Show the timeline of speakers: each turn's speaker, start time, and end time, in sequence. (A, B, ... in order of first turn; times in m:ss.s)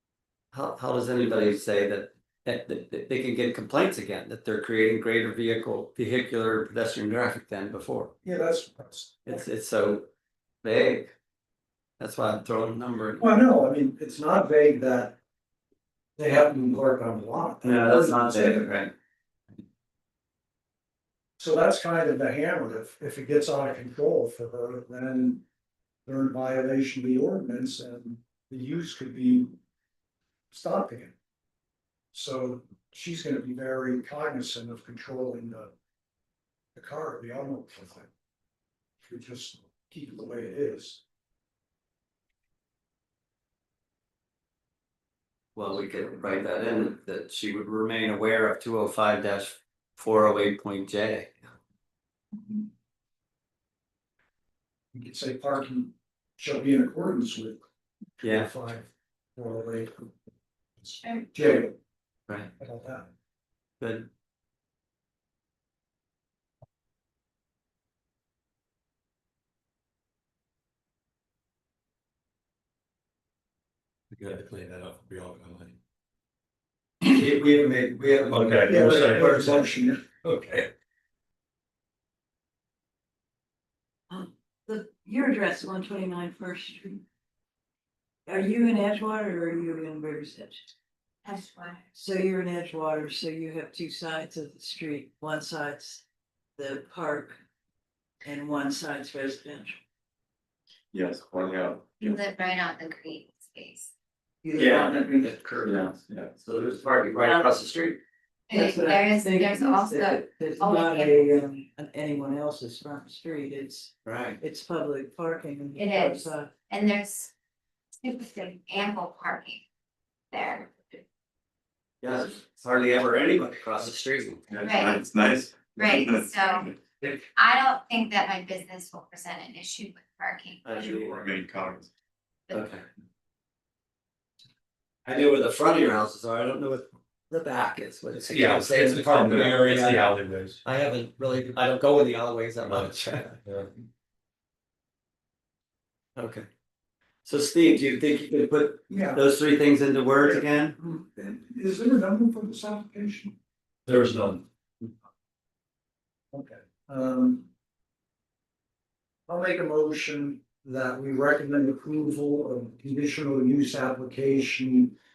0:00.5-0:08.1 A
0:08.2-0:09.4 B
0:09.2-0:10.1 A
0:10.6-0:11.1 A
0:12.0-0:13.4 A
0:13.2-0:15.2 B
0:16.2-0:18.7 B
0:17.6-0:18.9 A
0:21.4-0:25.4 B
0:26.0-0:29.6 B
0:30.5-0:31.1 B
0:32.1-0:35.7 B
0:36.7-0:38.1 B
0:39.0-0:41.0 B
0:45.5-0:51.3 A
0:54.9-0:57.6 B
0:58.2-0:58.5 A
0:58.2-1:00.1 B
1:00.8-1:01.7 B
1:02.6-1:03.1 B
1:03.8-1:04.1 A
1:14.1-1:15.8 C
1:17.0-1:19.8 A
1:18.3-1:19.3 C
1:18.7-1:20.0 B
1:20.2-1:20.7 C
1:24.1-1:27.0 D
1:28.3-1:30.7 D
1:31.2-1:31.8 E
1:31.9-1:36.0 D
1:36.6-1:37.4 D
1:38.2-1:39.8 D
1:40.9-1:42.1 F
1:42.0-1:43.9 E
1:44.4-1:45.3 D
1:44.5-1:48.0 A
1:47.2-1:47.6 D
1:48.5-1:51.2 E
1:48.5-1:56.5 D
1:54.0-1:54.4 A
1:55.8-1:57.3 E
1:58.0-1:59.6 E
2:00.3-2:00.7 E
2:02.0-2:04.4 A
2:04.5-2:06.3 F
2:04.6-2:05.0 E
2:05.7-2:11.0 E
2:10.6-2:11.3 A
2:10.8-2:11.9 F
2:12.5-2:12.8 A
2:15.0-2:20.0 A
2:18.2-2:20.6 C
2:20.6-2:23.4 A
2:22.6-2:22.9 C
2:26.2-2:26.5 A
2:27.2-2:30.8 A
2:28.9-2:29.2 B
2:30.2-2:33.3 B
2:33.9-2:34.4 C
2:36.3-2:37.5 B
2:39.3-2:44.9 B